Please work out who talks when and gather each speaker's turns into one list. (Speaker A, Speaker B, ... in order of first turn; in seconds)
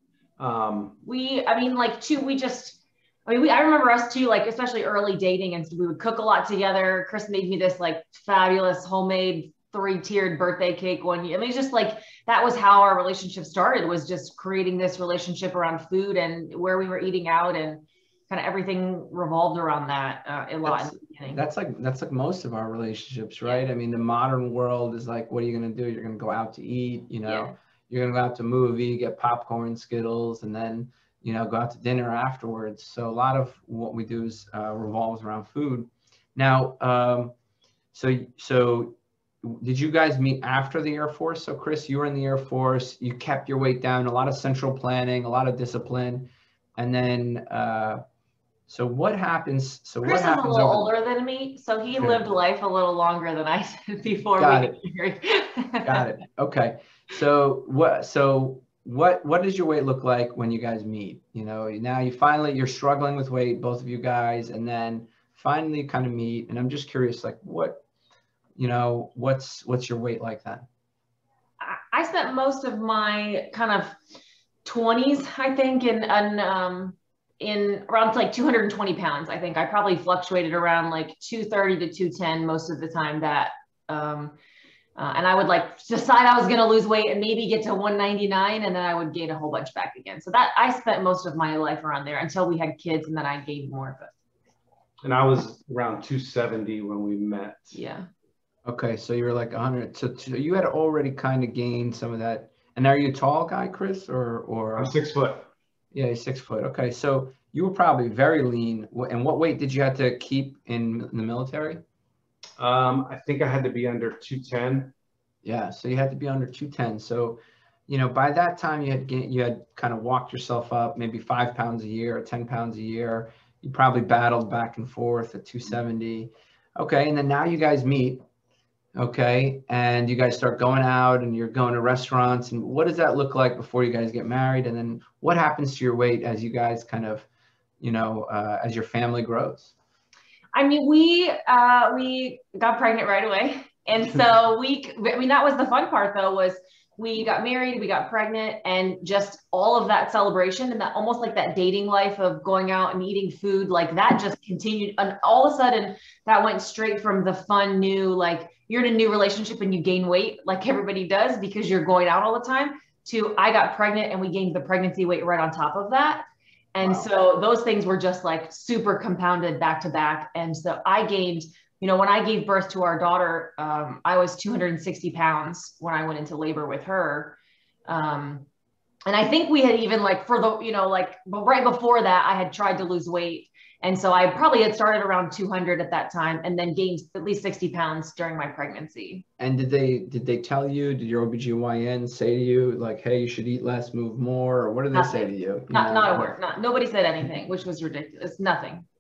Speaker A: 0.4-1.0, 95.0-97.8, 104.8-105.5, 112.6-114.9
Speaker B: 1.1-21.4, 27.3-27.5, 50.0-56.1, 71.6-73.9, 74.7-84.3, 85.0-94.1, 97.7-98.1, 140.5-178.5, 179.1-189.2, 194.9-198.8
Speaker C: 20.6-37.4, 37.9-48.0, 48.7-50.9, 52.0-52.3, 54.4-54.8, 55.9-67.8, 68.6-70.7, 98.7-105.0, 105.9-111.8, 115.4-128.2, 129.0-137.3, 137.8-139.7, 166.8-167.1, 189.4-196.3